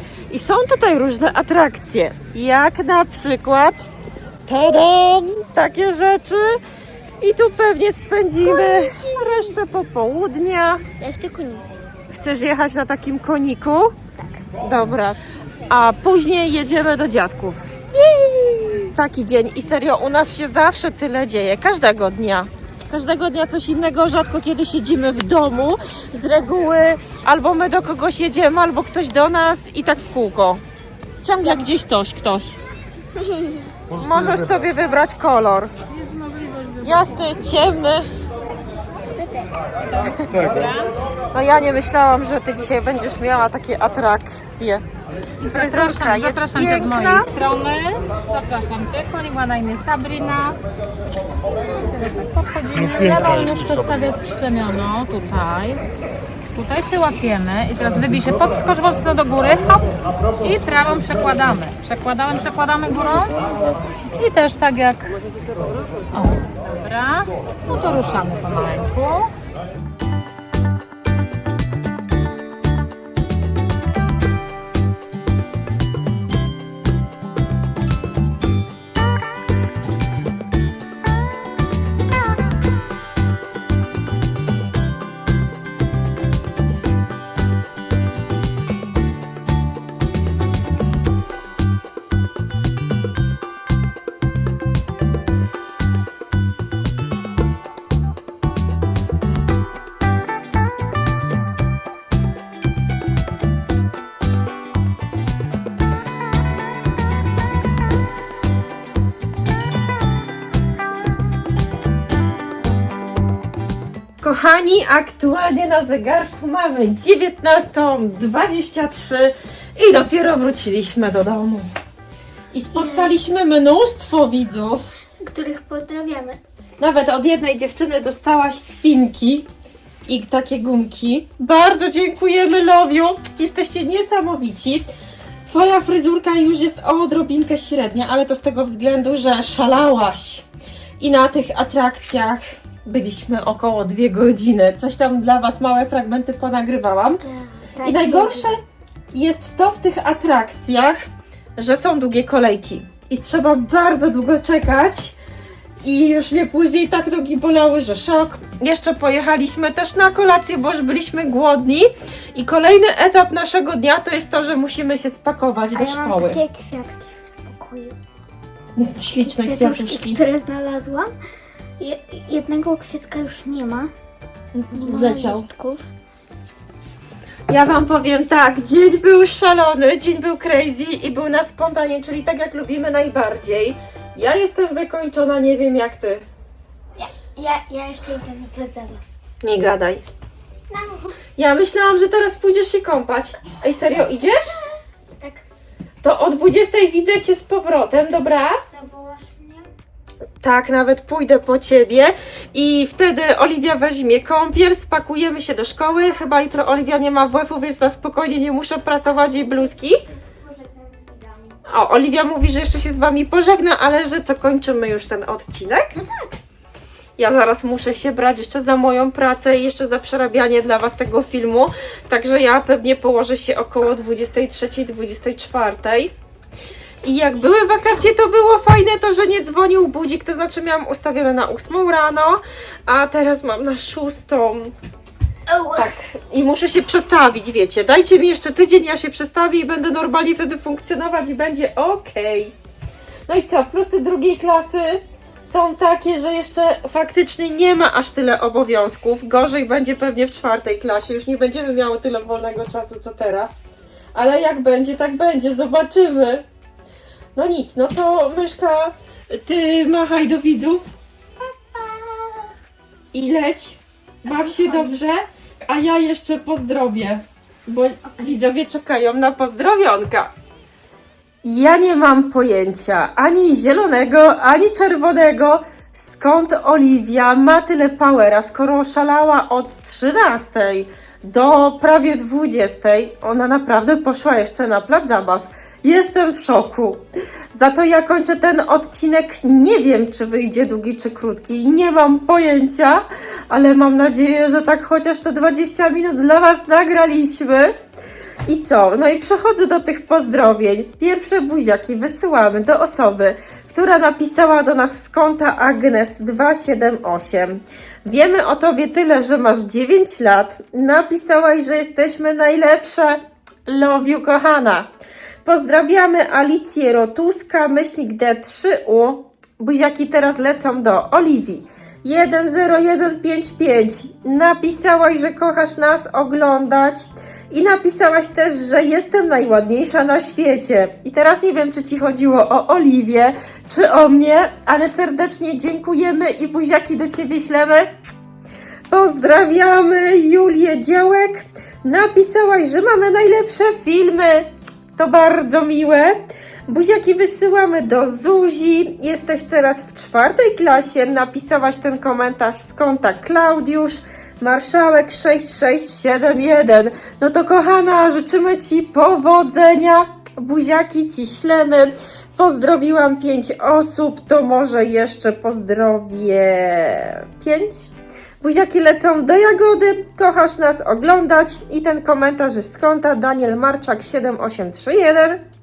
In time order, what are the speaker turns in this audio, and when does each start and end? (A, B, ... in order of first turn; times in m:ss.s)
0:00.3-0:03.9 A
0:04.5-0:06.6 A
0:07.2-0:10.8 A
0:08.4-0:09.2 B
0:11.0-0:11.7 B
0:12.1-0:14.0 A
0:14.5-0:17.7 A
0:17.9-0:18.9 B
0:18.9-0:30.6 A
0:31.2-0:32.6 A
0:33.1-0:33.7 B
0:33.9-0:35.7 A
0:35.9-0:37.3 C
0:36.8-0:38.0 A
0:39.0-0:39.6 B
0:39.9-0:40.9 C
0:41.3-0:44.8 A
0:45.4-0:50.6 C
0:45.4-0:47.3 A
0:51.6-0:55.8 C
0:56.5-0:59.9 C
1:00.4-1:03.5 C
1:04.1-1:05.1 C
1:06.1-1:09.3 C
1:54.2-2:01.7 A
2:02.5-2:04.9 A
2:02.7-2:03.2 B
2:05.2-2:06.4 B
2:06.8-2:09.5 A
2:10.1-2:14.9 A
2:15.4-2:20.4 A
2:21.0-2:27.2 A
2:27.2-2:28.5 B
2:27.8-2:28.6 A
2:29.1-2:31.0 A
2:31.6-2:35.1 A
2:35.8-2:46.4 A
2:45.7-2:48.0 B
2:48.8-2:50.2 A
2:49.2-2:51.1 B
2:51.8-2:53.9 B
2:54.5-2:55.4 A
2:54.7-2:55.8 B
2:57.5-3:06.2 A
3:07.0-3:09.0 B
3:09.4-3:10.0 A
3:10.7-3:11.2 B
3:11.4-3:14.6 A
3:15.2-3:15.4 B
3:16.0-3:18.6 A
3:18.6-3:19.7 B
3:20.4-3:30.0 A
3:29.2-3:31.6 B
3:31.6-3:35.9 A
3:35.9-3:36.4 B
3:37.2-3:46.1 A
3:47.0-3:54.7 A
3:55.5-3:55.9 B
3:55.7-4:02.5 A
4:03.3-4:13.6 A
4:14.1-4:16.4 A
4:17.4-4:20.8 A
4:21.6-4:22.5 B
4:23.1-4:30.3 A
4:24.3-4:24.9 B
4:31.4-4:57.7 A
4:58.5-5:14.9 A
5:15.4-5:37.9 A
5:38.9-6:15.4 A